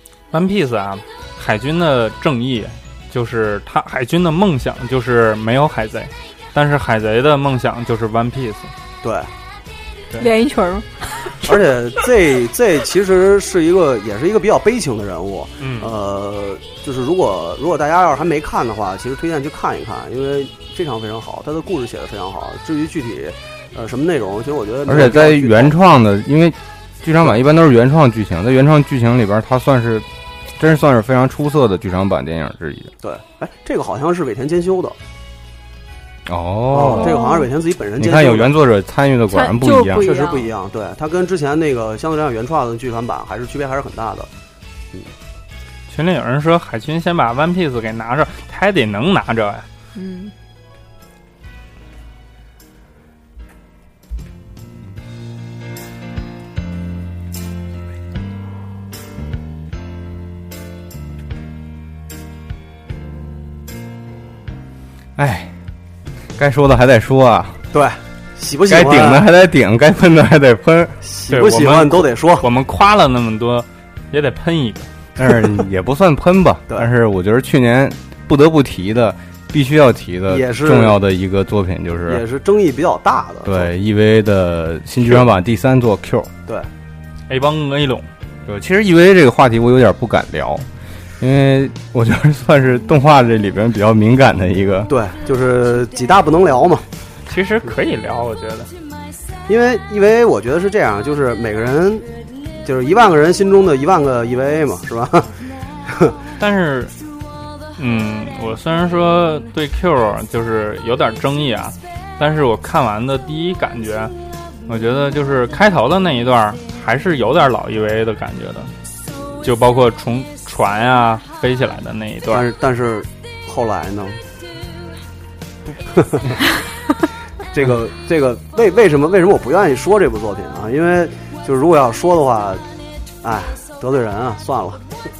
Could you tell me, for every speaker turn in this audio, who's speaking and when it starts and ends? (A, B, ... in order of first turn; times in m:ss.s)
0:00.3-0:08.7 A
0:09.0-0:09.3 B
0:10.2-0:11.6 C
0:11.4-0:25.7 B
0:15.6-0:15.9 A
0:24.8-0:30.1 D
0:30.6-0:32.9 D
0:33.0-0:35.0 B
0:36.2-0:37.2 D
0:36.7-0:38.5 B
0:36.9-0:37.5 C
0:38.0-0:40.1 D
0:39.3-0:40.5 C
0:40.0-0:44.3 B
0:45.9-0:49.6 A
0:49.9-0:50.3 C
1:05.2-1:05.5 D
1:06.4-1:07.6 D
1:07.7-1:09.2 B
1:08.7-1:11.0 D
1:11.0-1:12.5 B
1:11.3-1:14.9 A
1:15.2-1:15.6 B
1:15.2-1:22.2 D
1:20.3-1:21.0 B
1:22.0-1:23.7 B
1:23.4-1:26.3 D
1:27.3-1:28.1 A
1:28.4-1:30.6 D
1:31.2-1:34.9 D
1:34.9-1:36.8 B
1:37.3-1:38.7 A
1:39.5-1:42.0 B
1:42.6-1:45.3 B
1:45.9-1:46.2 B
1:46.4-1:46.9 A
1:47.8-1:54.1 A
1:54.7-1:58.7 A
1:59.4-2:02.4 A
2:02.3-2:04.2 B
2:05.9-2:06.4 B
2:07.5-2:12.6 B
2:13.2-2:14.8 B